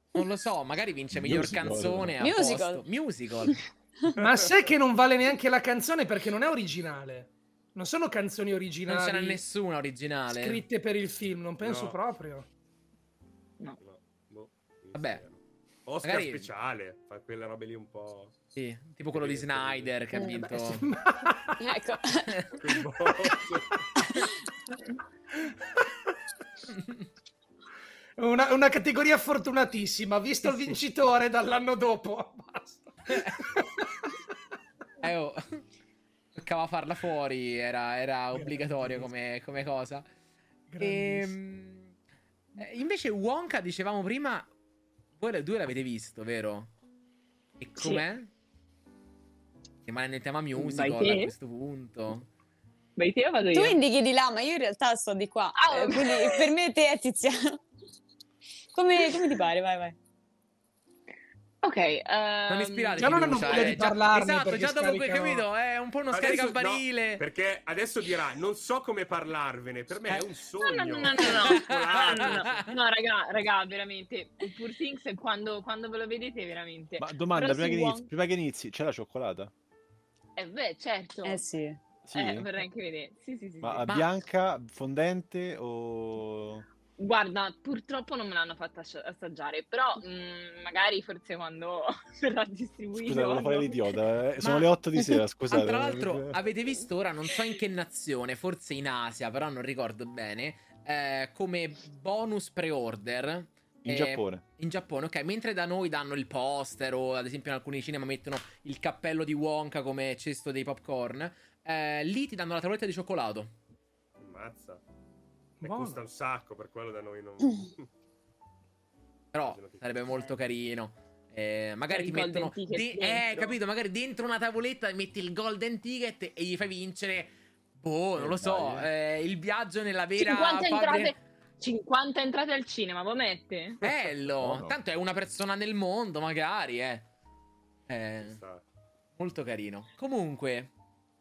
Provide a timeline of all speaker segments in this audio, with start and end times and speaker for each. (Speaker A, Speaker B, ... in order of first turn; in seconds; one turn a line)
Speaker A: 0.1-3.6
Speaker B: 1.1-2.2
Speaker C: 2.2-2.9
Speaker D: 4.2-4.7
Speaker E: 4.2-9.4
Speaker A: 8.9-10.6
Speaker E: 10.3-12.5
Speaker D: 11.6-12.0
Speaker D: 13.8-18.4
Speaker A: 14.9-15.2
Speaker A: 16.0-16.5
Speaker A: 18.5-20.9
Speaker D: 19.1-20.0
Speaker C: 20.1-20.8
Speaker E: 20.8-21.5
Speaker C: 21.6-22.5
Speaker D: 22.6-23.7
Speaker A: 26.8-27.0
Speaker E: 28.2-34.1
Speaker A: 33.1-33.4
Speaker A: 35.0-35.6
Speaker A: 36.3-40.0
Speaker E: 38.3-39.1
Speaker E: 40.7-41.3
Speaker A: 40.8-41.9
Speaker A: 42.6-44.5
Speaker A: 45.1-46.7
Speaker A: 47.6-48.3
Speaker F: 47.8-48.0
Speaker A: 49.9-52.3
Speaker F: 50.5-51.3
Speaker F: 53.0-53.8
Speaker C: 53.5-57.6
Speaker F: 55.5-56.5
Speaker C: 58.7-60.0
Speaker F: 61.6-63.7
Speaker A: 62.5-67.2
Speaker E: 63.0-65.5
Speaker D: 66.1-72.4
Speaker F: 70.6-78.1
Speaker A: 71.2-72.8
Speaker B: 77.0-79.5
Speaker F: 80.3-81.4
Speaker C: 81.2-81.8
Speaker B: 82.0-82.5
Speaker F: 82.1-83.9
Speaker B: 83.6-86.7
Speaker A: 83.8-84.1
Speaker F: 87.0-94.0
Speaker B: 93.0-96.3
Speaker A: 94.4-94.7
Speaker A: 95.5-113.5
Speaker B: 103.8-104.4
Speaker D: 114.2-114.8
Speaker E: 115.6-116.0
Speaker D: 115.6-117.9
Speaker A: 119.3-131.1
Speaker D: 119.4-120.1
Speaker F: 121.9-123.5
Speaker B: 128.1-128.9
Speaker F: 130.2-133.8
Speaker A: 133.8-137.1
Speaker B: 133.9-134.8
Speaker A: 137.9-138.4
Speaker D: 138.2-138.6
Speaker A: 139.2-140.7